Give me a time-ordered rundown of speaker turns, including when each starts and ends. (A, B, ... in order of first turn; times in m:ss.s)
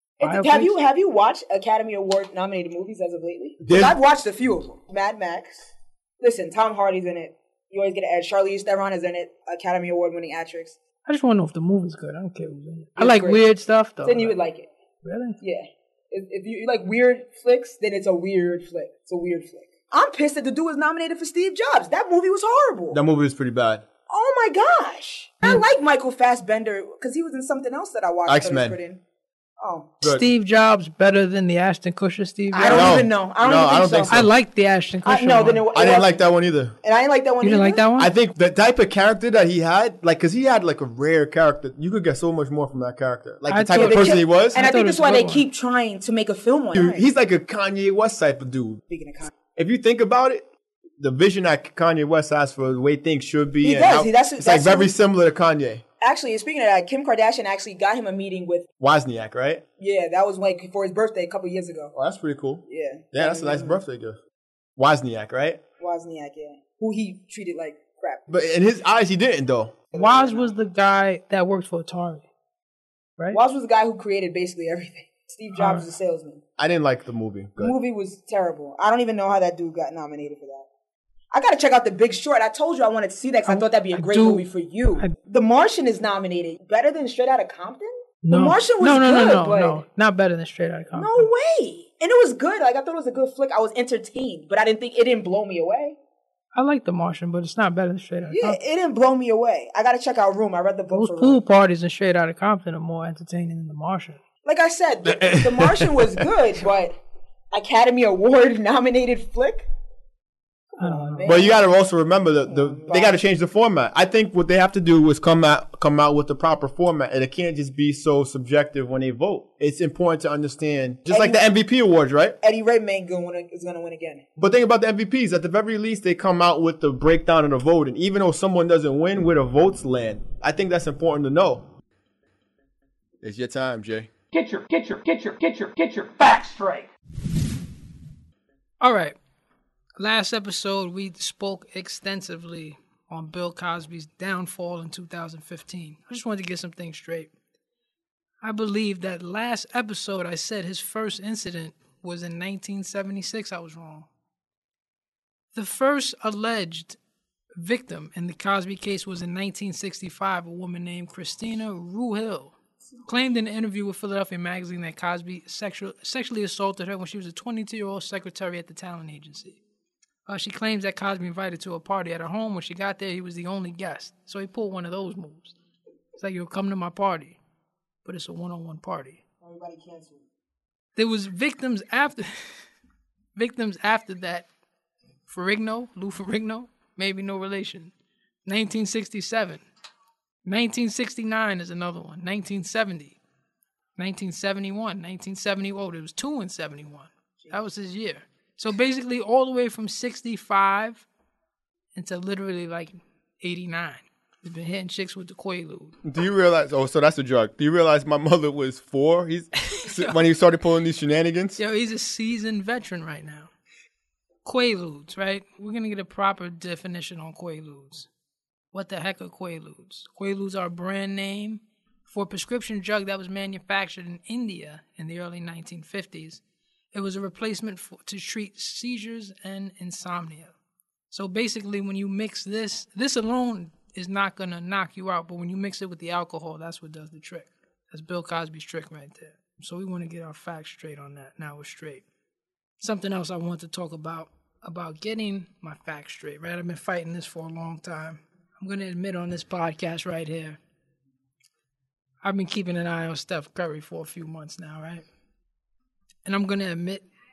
0:00.2-0:05.7 A
0:00.2-0:00.7 B
0:03.6-0:04.0 C
0:06.2-0:10.8 A
0:11.0-0:14.4 B
0:13.0-0:13.4 A
0:14.0-0:14.7 A
0:15.0-0:15.4 B
0:15.4-0:23.0 A
0:22.9-0:23.8 C
0:24.1-0:29.0 A
0:28.2-0:28.8 C
0:29.6-0:29.9 A
0:30.0-0:33.0 B
0:32.5-0:34.2 A
0:32.6-0:34.3 C
0:34.1-0:35.6 B
0:35.0-0:36.2 A
0:35.7-0:36.8 C
0:36.8-0:37.8 A
0:37.4-0:38.1 B
0:38.0-0:44.6 C
0:43.5-0:45.4 B
0:43.7-0:47.0 A
0:46.7-0:48.8 C
0:48.9-0:49.3 A
0:49.6-0:50.4 C
0:51.0-0:55.8 C
0:53.6-0:54.9 A
0:56.0-0:58.6 A
0:58.8-0:59.6 C
0:59.8-1:01.9 A
1:01.9-1:04.2 C
1:02.7-1:03.8 A
1:04.8-1:05.6 C
1:05.8-1:08.4 A
1:08.3-1:09.8 C
1:09.9-1:10.5 A
1:09.9-1:12.2 B
1:13.3-1:16.4 A
1:15.6-1:15.8 B
1:16.6-1:17.8 C
1:17.6-1:20.6 A
1:21.3-1:29.8 A
1:23.5-1:24.4 B
1:28.2-1:31.3 B
1:31.0-1:36.0 A
1:36.5-1:38.6 B
1:38.3-1:41.4 A
1:40.9-1:44.2 B
1:44.4-1:47.0 A
1:45.1-1:46.2 C
1:47.5-1:49.7 A
1:50.7-1:51.6 A
1:50.8-1:51.4 B
1:51.2-2:02.4 C
1:52.5-1:53.2 A
2:01.1-2:01.4 A
2:02.4-2:04.2 A
2:04.4-2:11.7 C
2:13.2-2:14.1 C
2:14.3-2:16.9 D
2:18.8-2:19.1 B
2:20.0-2:27.3 B
2:28.4-2:34.1 B
2:35.5-2:37.0 B
2:37.6-2:42.5 B
2:43.0-2:49.6 B
2:50.3-2:55.5 B
2:56.2-2:57.4 B
2:58.0-2:59.2 B
2:59.4-3:00.2 A
3:01.0-3:02.5 B
3:03.4-3:04.5 B
3:05.3-3:07.9 B
3:08.4-3:09.6 B
3:10.4-3:13.2 B
3:14.0-3:21.0 B
3:21.9-3:26.0 B
3:26.0-3:31.6 C
3:29.7-3:30.2 B
3:31.6-3:33.5 B
3:34.4-3:38.1 B
3:38.7-3:46.4 B
3:46.9-3:50.5 B
3:51.1-4:02.0 B
4:02.8-4:10.6 B
4:12.2-4:15.0 B
4:16.2-4:17.0 B